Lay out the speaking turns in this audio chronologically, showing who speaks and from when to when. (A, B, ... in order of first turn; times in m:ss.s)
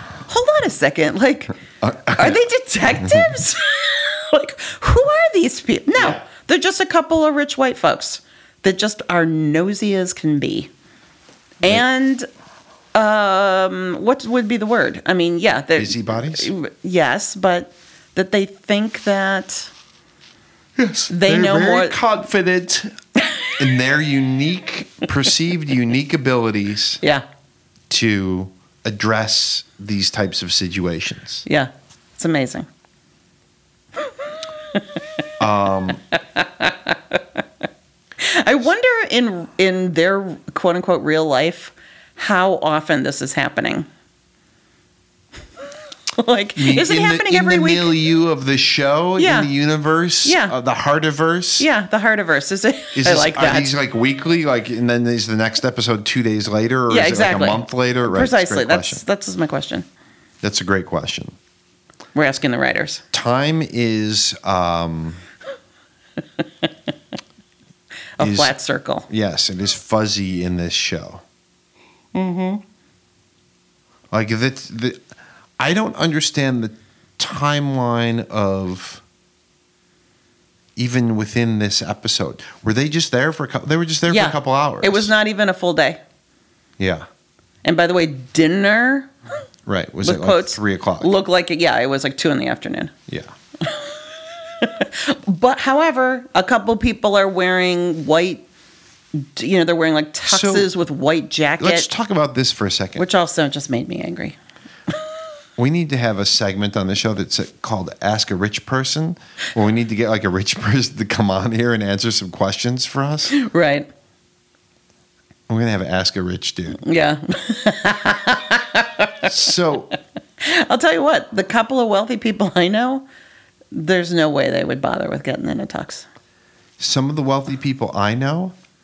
0:00.3-0:01.5 A
0:01.8-0:02.4 B
0:02.1-0:10.7 A
0:03.0-0:03.3 B
0:11.6-0:12.3 A
0:12.9-0:19.7 A
0:15.8-0:16.5 B
0:20.8-0:22.9 B
0:21.1-0:22.0 A
0:23.6-0:27.0 B
0:27.9-0:31.4 B
0:31.4-0:32.7 A
0:35.4-0:36.0 B
0:36.1-0:37.4 A
0:38.2-0:43.9 A
0:46.1-0:47.9 A
0:46.6-0:51.7 B
0:49.2-0:49.5 A
0:50.2-0:50.5 A
0:51.6-0:53.7 A
0:53.0-0:59.0 B
0:56.9-0:59.8 A
1:00.4-1:01.4 B
1:02.1-1:03.0 A
1:03.1-1:05.2 B
1:06.4-1:06.7 A
1:08.2-1:09.1 A
1:08.2-1:08.5 B
1:09.1-1:11.2 B
1:12.1-1:12.6 A
1:14.1-1:15.0 B
1:15.6-1:19.0 B
1:20.8-1:25.1 B
1:24.1-1:26.0 A
1:26.8-1:27.0 B
1:27.6-1:29.1 A
1:29.6-1:31.1 B
1:30.0-1:32.9 A
1:33.6-1:33.9 A
1:34.6-1:38.4 A
1:39.1-1:41.9 A
1:40.2-1:40.7 B
1:41.6-1:43.0 B
1:43.0-1:44.4 A
1:45.6-1:53.4 B
1:53.3-1:53.9 A
1:55.5-1:56.8 B
1:56.8-1:59.3 A
1:59.2-1:59.9 B
2:00.4-2:03.0 A
2:03.7-2:06.0 A
2:06.8-2:08.5 B